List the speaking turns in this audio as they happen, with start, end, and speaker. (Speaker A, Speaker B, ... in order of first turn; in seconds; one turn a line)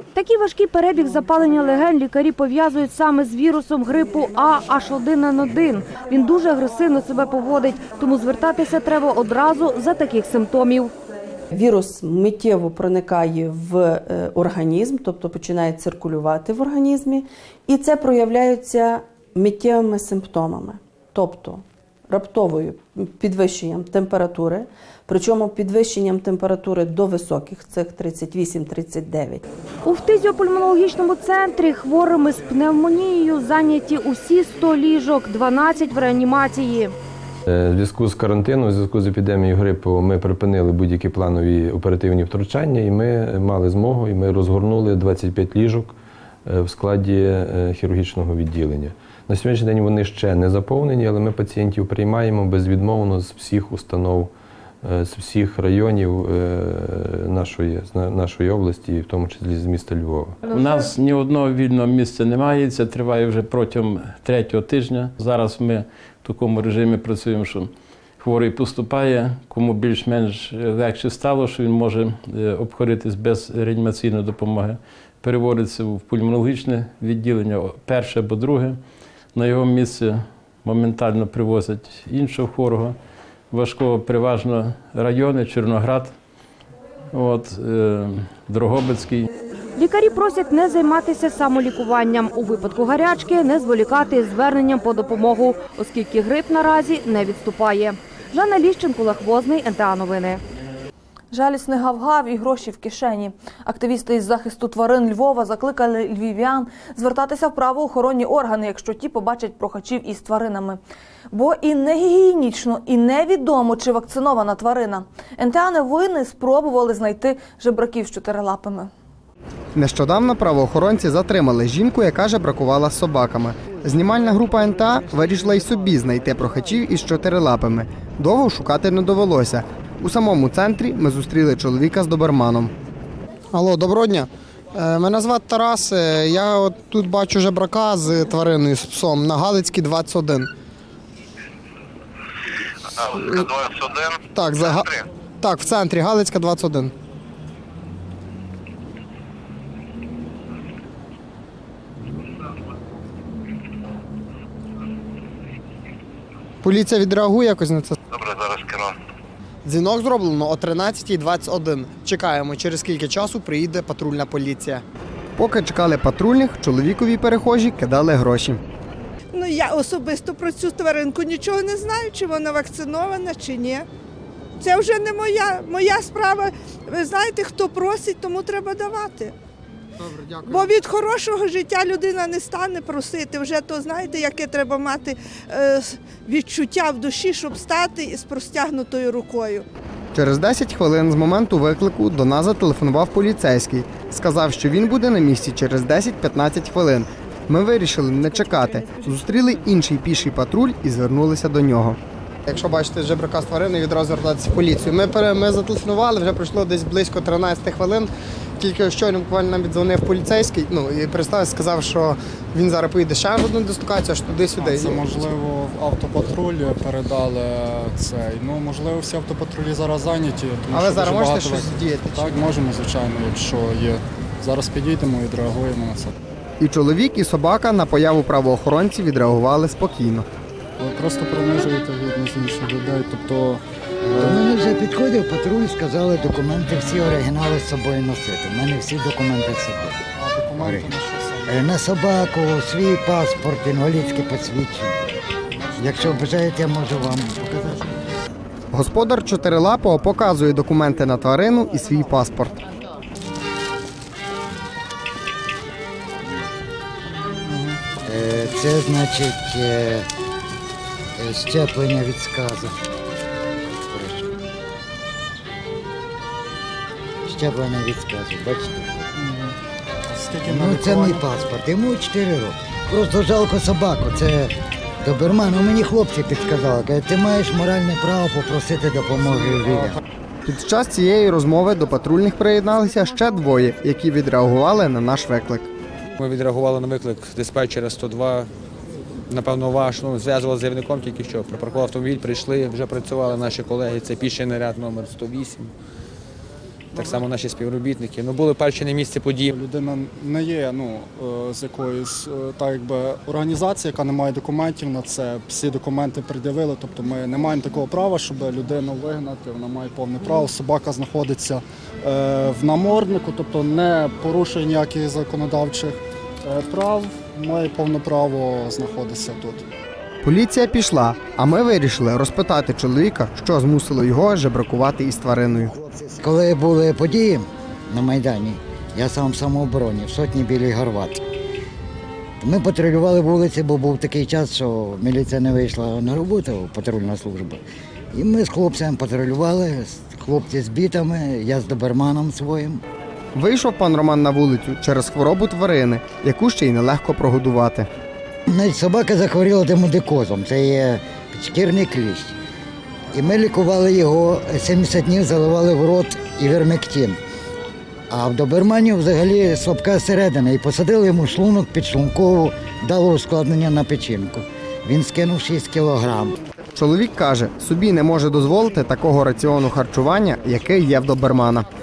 Speaker A: 0.1-10.9
Speaker B: 11.5-29.4
Speaker A: 29.8-36.9
Speaker C: 37.5-54.3
Speaker C: 54.8-60.4
Speaker D: 60.4-78.8
Speaker D: 79.3-83.0
Speaker D: 83.5-86.1
Speaker D: 87.1-89.3
Speaker A: 89.8-100.4
Speaker E: 101.3-110.8
Speaker E: 111.3-118.9
Speaker F: 119.7-132.7
Speaker F: 133.5-140.5
Speaker F: 143.2-143.5
Speaker F: 144.3-146.9
Speaker F: 156.6-157.9
Speaker F: 159.6-164.8
Speaker F: 165.4-168.6
Speaker G: 169.3-173.8
Speaker G: 174.6-179.3
Speaker F: 180.0-180.7
Speaker G: 180.4-189.6
Speaker F: 190.1-215.0
Speaker H: 214.6-226.1
Speaker F: 220.7-222.3
Speaker F: 226.6-230.2
Speaker H: 230.8-234.4
Speaker I: 234.1-240.0
Speaker H: 240.2-241.8
Speaker I: 240.6-245.1
Speaker H: 245.8-246.2
Speaker I: 245.8-248.0
Speaker F: 248.7-252.6
Speaker I: 258.0-260.1
Speaker I: 261.2-262.7
Speaker I: 263.7-264.3
Speaker I: 267.3-268.9
Speaker H: 269.2-269.6
Speaker H: 270.1-271.3
Speaker I: 270.4-279.9
Speaker H: 279.2-279.9
Speaker F: 280.4-285.7
Speaker J: 286.2-288.5
Speaker J: 289.3-295.7
Speaker J: 296.9-299.5
Speaker H: 296.9-297.2
Speaker H: 299.5-319.6
Speaker F: 320.2-325.8
Speaker I: 325.8-331.2
Speaker I: 332.4-337.6
Speaker I: 338.1-342.8
Speaker F: 343.3-347.9
Speaker I: 348.5-352.3
Speaker I: 353.1-357.2
Speaker I: 358.1-366.3
Speaker F: 366.8-371.7